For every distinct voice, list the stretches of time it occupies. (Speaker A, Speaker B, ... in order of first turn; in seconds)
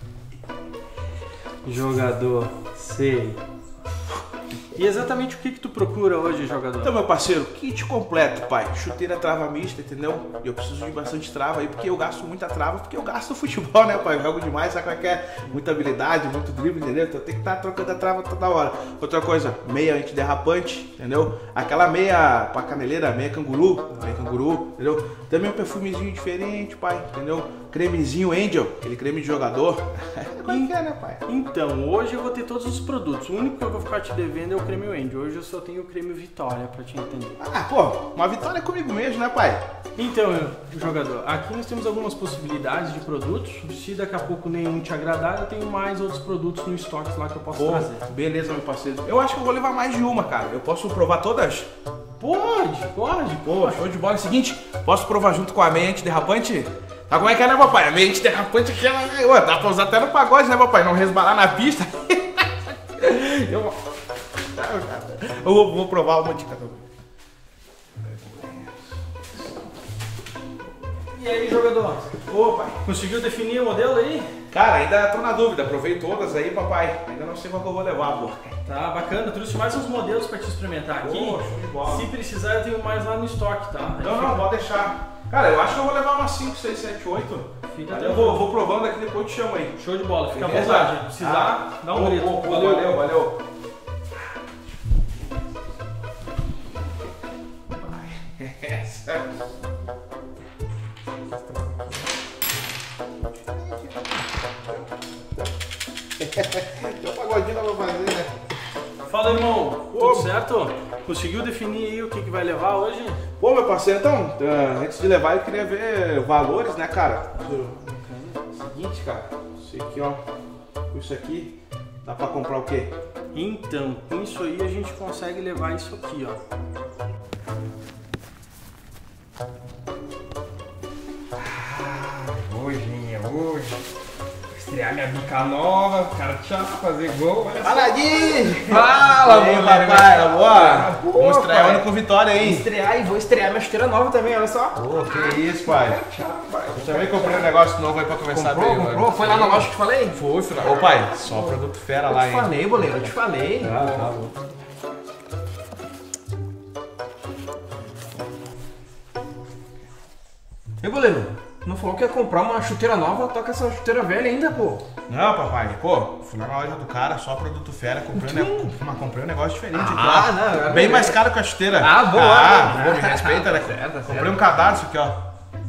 Speaker A: 1.6-3.4, 4.7-6.9, 30.4-30.7, 31.2-37.4, 40.0-48.0, 52.2-53.8, 71.1-72.1, 72.8-74.3, 78.7-84.5, 87.7-88.5, 89.8-92.9, 109.0-113.2, 117.9-118.4, 123.3-126.4
Speaker B: 6.8-31.2, 37.4-39.6, 47.5-51.7, 53.4-63.8, 64.4-66.8, 68.0-68.9, 72.2-72.8, 74.5-78.6, 81.0-82.1, 84.0-89.8, 90.3-93.4, 97.7-99.3, 101.3-102.1, 103.3-105.5, 106.2-108.3, 109.9-110.3, 113.4-118.0, 118.5-120.2, 120.9-122.9, 137.6-142.7, 144.7-146.0, 146.7-154.3, 165.1-175.2
Speaker C: 131.3-133.8, 134.5-147.5, 148.3-150.2, 151.2-154.2, 160.8-164.8, 168.1-168.7, 169.7-171.2, 171.7-174.4